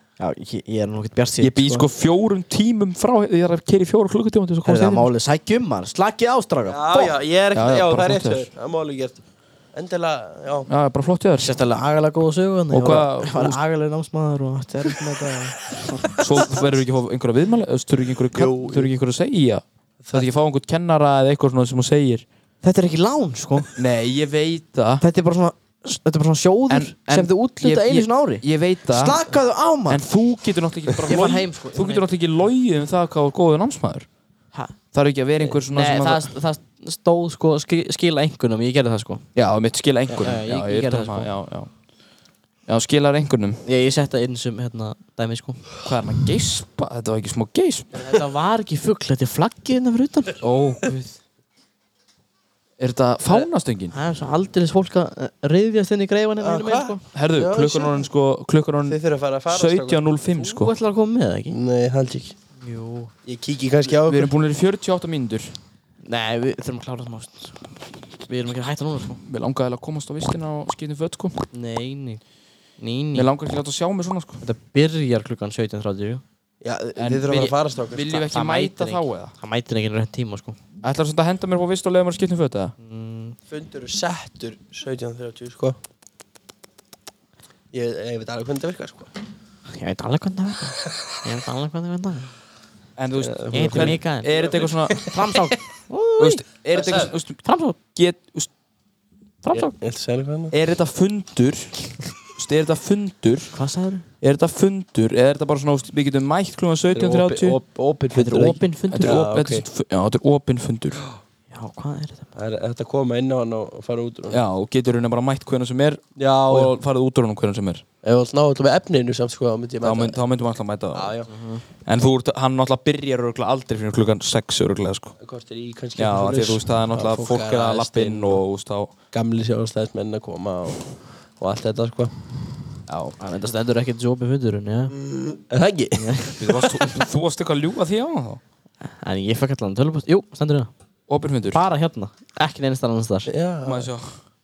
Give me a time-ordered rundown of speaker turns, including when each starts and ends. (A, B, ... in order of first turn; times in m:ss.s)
0:00.2-0:01.9 A
0:01.4-0:05.1 B
0:04.6-0:07.1 A
0:06.6-0:09.2 C
0:07.5-0:08.5 B
0:09.7-0:10.7 C
0:10.7-0:11.5 B
0:11.4-0:16.1 A
0:12.7-0:13.6 B
0:16.2-0:22.2 B
0:18.3-0:18.9 C
0:20.0-0:20.3 C
0:22.6-0:23.7 A
0:23.8-0:25.0 B
0:25.0-0:30.0 A
0:26.7-0:29.2 B
0:29.9-0:34.1 B
0:31.0-0:32.0 A
0:34.9-0:36.3 B
0:35.4-0:39.2 A
0:39.3-0:41.7 B
0:40.1-0:41.3 A
0:42.7-0:43.6 B
0:43.6-0:45.7 A
0:45.8-0:47.9 B
0:48.0-0:50.4 A
0:50.4-0:51.1 B
0:52.8-0:53.9 B
0:53.9-0:57.0 A
0:56.4-0:58.1 C
0:57.1-1:00.7 B
0:58.8-1:00.0 C
1:00.3-1:01.6 A
1:01.5-1:02.3 C
1:02.6-1:03.1 A
1:03.2-1:04.3 C
1:03.9-1:05.6 B
1:06.0-1:07.7 A
1:08.2-1:09.2 A
1:09.2-1:11.4 B
1:11.5-1:12.2 A
1:12.8-1:13.3 A
1:13.1-1:14.4 B
1:14.4-1:16.2 A
1:16.6-1:18.2 C
1:17.0-1:19.3 B
1:18.1-1:20.6 A
1:20.8-1:22.7 B
1:22.8-1:23.4 A
1:23.5-1:25.8 C
1:27.7-1:29.1 C
1:29.7-1:32.3 A
1:33.0-1:35.0 B
1:33.2-1:35.1 C
1:33.5-1:34.3 A
1:35.0-1:36.4 A
1:36.2-1:38.5 B
1:36.7-1:37.1 C
1:37.4-1:37.8 A
1:39.4-1:39.7 A
1:39.7-1:40.5 C
1:40.5-1:43.5 B
1:43.5-1:44.0 A
1:44.2-1:47.6 B
1:46.9-1:49.6 C
1:48.1-1:49.2 A
1:48.9-1:51.1 B
1:51.5-1:52.3 A
1:52.3-1:54.4 C
1:54.3-1:57.8 B
1:56.2-1:56.7 C
1:58.0-2:00.2 C
1:59.8-2:01.2 B
2:00.9-2:01.3 C
2:01.3-2:01.6 A
2:01.9-2:05.2 B
2:05.2-2:08.4 C
2:06.0-2:08.9 B
2:09.1-2:12.4 C
2:12.9-2:13.2 B
2:13.2-2:15.0 A
2:15.1-2:16.1 C
2:16.0-2:16.6 A
2:16.4-2:18.4 B
2:18.8-2:20.7 A
2:21.1-2:21.6 B
2:21.5-2:23.3 A
2:23.3-2:23.9 C
2:23.6-2:24.2 B